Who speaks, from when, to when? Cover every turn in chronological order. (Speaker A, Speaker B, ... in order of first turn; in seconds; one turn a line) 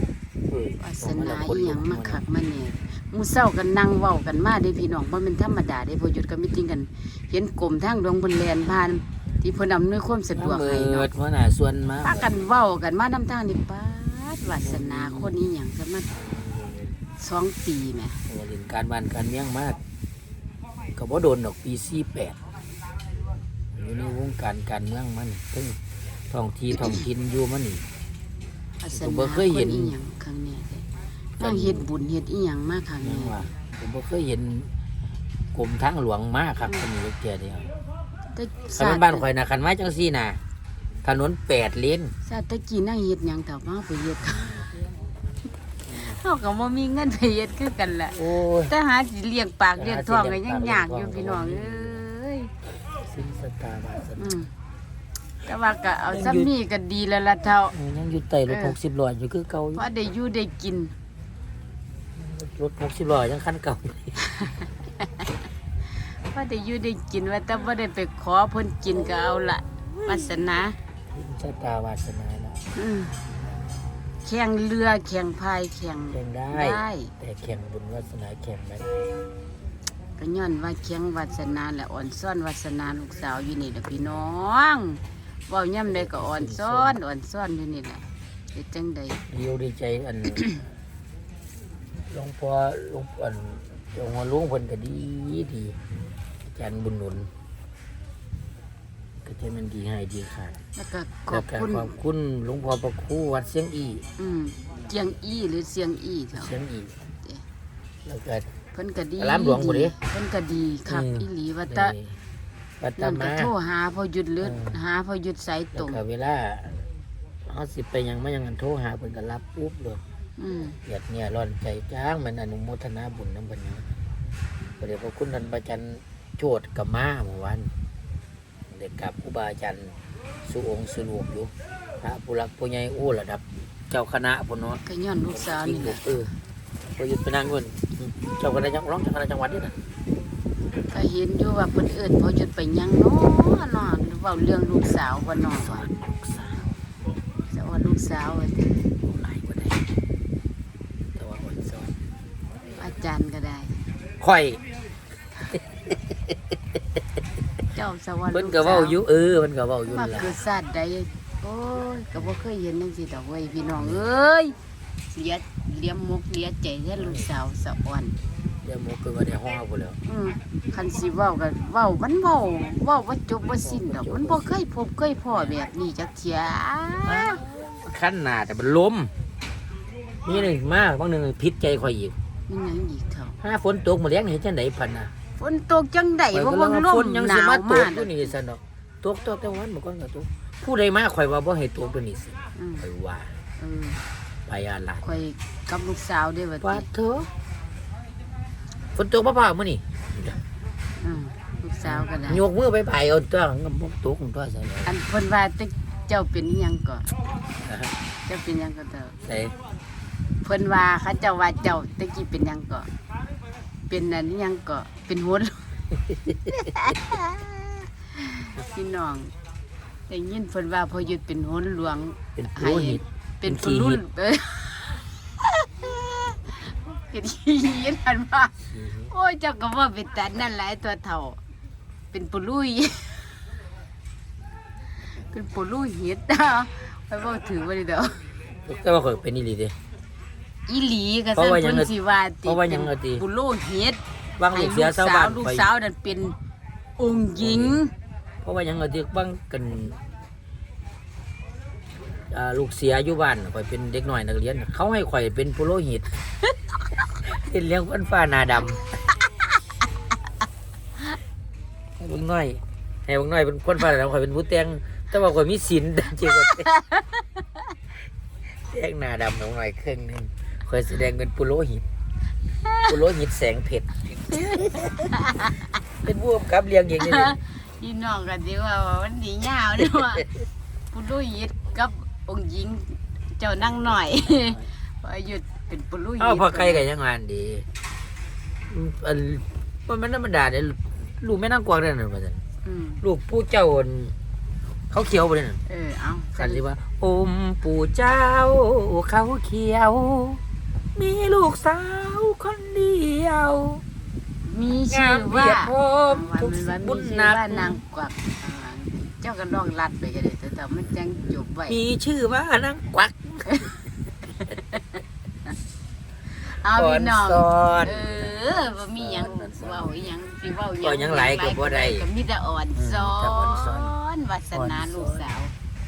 Speaker A: 0.5-2.2
Speaker B: 0.8-11.1
Speaker A: 10.3-12.3
Speaker B: 12.0-16.1
Speaker A: 14.6-15.3
Speaker A: 16.1-17.0
Speaker B: 17.2-18.2
Speaker A: 18.3-19.8
Speaker A: 20.9-22.4
Speaker A: 23.7-25.8
Speaker A: 26.3-27.8
Speaker B: 28.8-30.9
Speaker A: 28.9-29.9
Speaker A: 31.4-31.9
Speaker B: 31.4-33.4
Speaker A: 33.0-34.7
Speaker A: 35.5-37.7
Speaker B: 38.3-39.2
Speaker A: 38.8-40.4
Speaker A: 41.0-42.1
Speaker B: 42.2-44.6
Speaker A: 44.3-44.7
Speaker A: 45.9-46.1
Speaker B: 45.9-52.5
Speaker A: 48.1-48.7
Speaker A: 49.8-52.0
Speaker A: 52.9-54.4
Speaker B: 54.2-54.5
Speaker B: 55.4-57.7
Speaker A: 56.1-56.5
Speaker A: 57.7-59.9
Speaker B: 58.5-58.7
Speaker B: 59.7-60.9
Speaker A: 62.1-64.4
Speaker B: 64.4-65.2
Speaker B: 66.0-70.8
Speaker A: 71.1-72.6
Speaker B: 72.7-73.2
Speaker B: 74.2-77.1
Speaker A: 76.1-79.1
Speaker B: 80.2-89.2
Speaker A: 85.9-87.0
Speaker A: 89.3-90.5
Speaker A: 92.1-95.8
Speaker A: 96.5-97.3
Speaker A: 99.2-100.6
Speaker B: 100.8-101.9
Speaker A: 101.3-104.0
Speaker B: 104.2-106.5
Speaker A: 106.3-106.9
Speaker A: 108.0-108.5
Speaker B: 108.7-111.9
Speaker A: 109.2-110.0
Speaker A: 110.9-112.2
Speaker A: 112.8-113.5
Speaker B: 113.0-116.0
Speaker A: 114.4-114.8
Speaker A: 115.7-116.8
Speaker A: 117.5-120.0
Speaker B: 120.4-120.8
Speaker A: 120.8-123.9
Speaker A: 124.8-127.7
Speaker A: 128.7-136.3
Speaker B: 134.8-136.1
Speaker A: 137.0-139.8
Speaker B: 140.9-145.8
Speaker A: 145.6-146.7
Speaker B: 147.5-148.8
Speaker A: 149.0-149.9
Speaker A: 151.1-152.0
Speaker B: 152.8-153.8
Speaker A: 154.2-154.6
Speaker A: 155.5-156.1
Speaker B: 157.7-159.0
Speaker A: 158.3-160.4
Speaker B: 159.9-164.5
Speaker A: 163.8-164.0
Speaker B: 165.1-168.1
Speaker A: 167.0-167.3
Speaker A: 168.6-170.0
Speaker B: 170.1-177.4
Speaker A: 173.6-174.6
Speaker A: 177.0-179.1
Speaker A: 180.2-182.1
Speaker B: 182.5-183.4
Speaker A: 183.4-185.1
Speaker B: 185.4-188.3
Speaker A: 186.3-193.3
Speaker B: 192.6-192.8
Speaker B: 193.6-194.0
Speaker A: 194.5-195.1
Speaker B: 195.0-196.9
Speaker A: 196.6-197.3
Speaker A: 198.9-200.4
Speaker B: 201.0-202.4
Speaker A: 201.8-205.0
Speaker B: 204.8-207.0
Speaker A: 207.6-207.9
Speaker B: 208.3-209.2
Speaker A: 209.2-209.5
Speaker B: 210.4-212.9
Speaker B: 213.9-215.7
Speaker B: 216.5-219.3
Speaker B: 220.1-228.5
Speaker A: 222.3-224.0
Speaker A: 228.6-229.1
Speaker B: 229.1-231.4
Speaker B: 232.1-233.3
Speaker B: 235.1-238.2
Speaker A: 238.6-239.8
Speaker B: 240.7-246.3
Speaker A: 241.3-243.2
Speaker A: 244.4-245.7
Speaker B: 247.0-247.9
Speaker A: 247.4-247.8
Speaker A: 248.4-250.0
Speaker A: 252.3-256.1
Speaker A: 257.2-258.8
Speaker A: 262.0-266.7
Speaker B: 266.5-267.0
Speaker A: 268.7-271.8
Speaker A: 272.8-275.1
Speaker B: 274.4-275.5
Speaker A: 276.0-277.4
Speaker B: 277.0-280.3
Speaker B: 280.9-286.8
Speaker A: 286.2-287.7
Speaker A: 288.7-292.4
Speaker B: 292.6-293.0
Speaker A: 293.0-294.1
Speaker A: 294.9-295.6
Speaker B: 295.7-296.6
Speaker A: 296.4-300.4
Speaker A: 300.9-303.8
Speaker B: 304.4-311.8
Speaker A: 304.9-307.8
Speaker A: 311.7-313.8
Speaker B: 314.6-314.8
Speaker B: 316.4-325.5
Speaker A: 316.6-319.9
Speaker A: 320.8-322.1
Speaker A: 322.8-323.9
Speaker A: 324.5-325.3